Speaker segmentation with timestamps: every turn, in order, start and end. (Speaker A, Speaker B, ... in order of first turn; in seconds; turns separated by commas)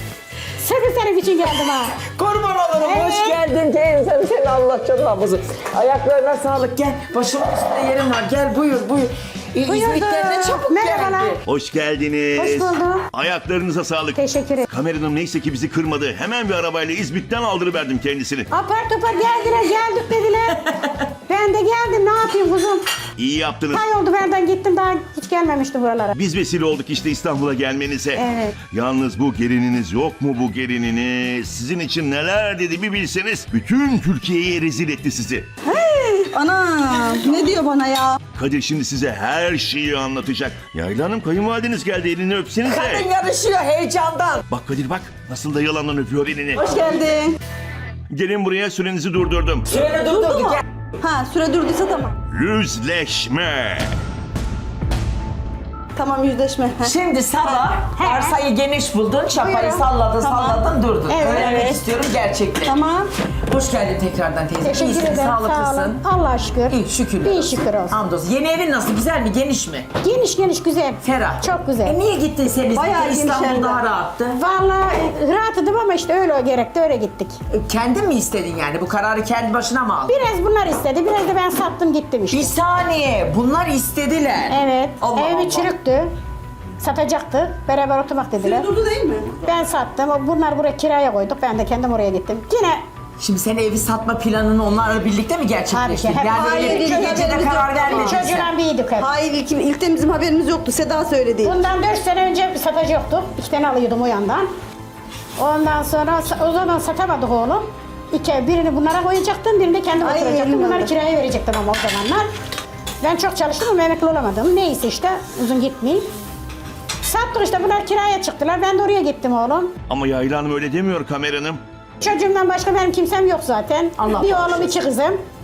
Speaker A: 0.6-1.9, Speaker B: 2.0-11.4, Speaker A: 2.8-3.4, Speaker A: 9.6-11.4, Speaker C: 11.4-18.5, Speaker A: 12.3-13.0, Speaker A: 14.1-14.7, Speaker A: 18.5-20.6, Speaker A: 21.3-22.8, Speaker C: 23.2-23.8, Speaker A: 23.7-26.1, Speaker C: 26.1-35.5, Speaker A: 28.2-28.5, Speaker D: 35.6-38.2, Speaker C: 38.4-43.1, Speaker B: 42.6-44.4, Speaker C: 44.5-46.7, Speaker D: 46.5-47.3, Speaker C: 48.1-49.7, Speaker B: 49.7-50.6, Speaker D: 50.1-52.1, Speaker C: 52.3-53.9, Speaker D: 55.9-57.6, Speaker B: 56.8-62.8, Speaker A: 57.9-58.4, Speaker A: 59.4-60.5, Speaker A: 61.1-61.8, Speaker D: 61.4-61.6, Speaker D: 62.6-63.1, Speaker B: 63.5-66.0, Speaker A: 64.6-68.0, Speaker B: 66.7-69.9, Speaker A: 70.0-72.0, Speaker B: 71.0-74.4, Speaker D: 72.7-73.8, Speaker A: 74.4-77.4, Speaker B: 77.5-80.2, Speaker A: 80.1-82.5, Speaker B: 82.3-85.7, Speaker A: 84.5-86.1, Speaker A: 86.8-88.7, Speaker D: 88.4-89.4, Speaker A: 89.4-92.8, Speaker B: 93.2-98.5, Speaker A: 95.7-97.4, Speaker D: 96.3-98.2, Speaker A: 97.9-99.1, Speaker D: 99.0-101.6, Speaker A: 101.4-104.5, Speaker A: 105.4-112.2, Speaker D: 110.0-110.9, Speaker A: 113.0-116.0, Speaker A: 117.0-119.7, Speaker C: 119.9-121.6, Speaker A: 122.0-125.2, Speaker B: 124.0-124.8